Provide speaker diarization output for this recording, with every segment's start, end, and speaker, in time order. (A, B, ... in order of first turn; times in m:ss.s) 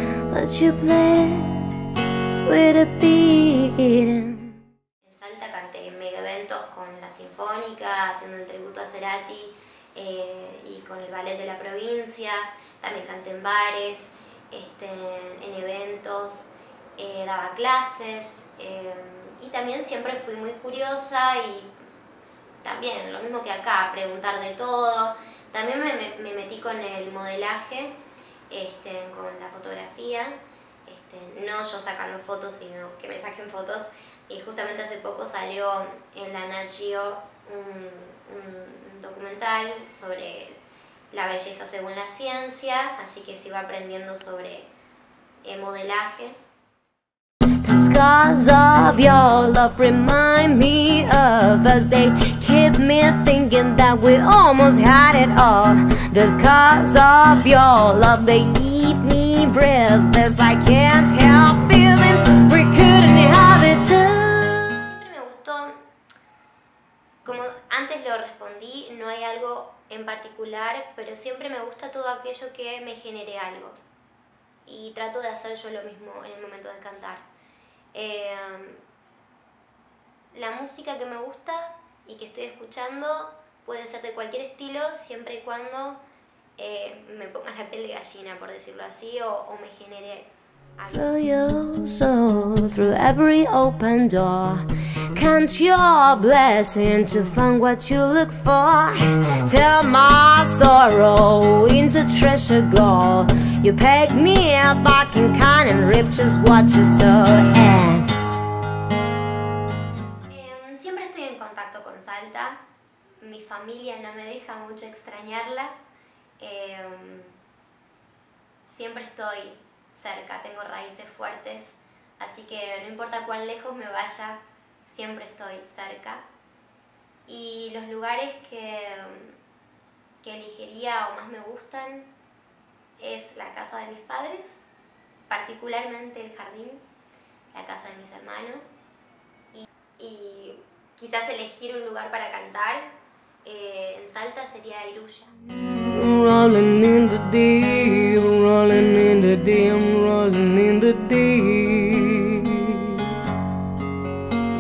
0:00.3-0:01.8 A
0:02.4-0:04.6 A
0:05.0-0:21.7 B
0:22.6-0:28.0 B
0:28.5-0:40.6 B
0:41.1-0:44.7 B
0:45.4-0:46.4 B
0:47.6-1:04.8 A
1:04.8-1:05.8 B
1:07.2-1:13.8 B
1:14.7-1:17.3 B
1:17.9-1:18.8 B
1:20.3-1:26.0 B
1:26.6-1:30.3 B
1:30.8-1:48.1 A
1:50.3-1:52.6 B
1:53.2-1:55.8 B
1:56.4-1:57.4 B
1:58.7-2:06.2 B
2:07.3-2:09.4 B
2:10.2-2:12.1 B
2:13.0-2:14.7 B
2:15.3-2:16.8 B
2:17.5-2:18.7 B
2:19.5-2:22.9 B
2:23.4-2:25.3 B
2:25.9-2:33.1 A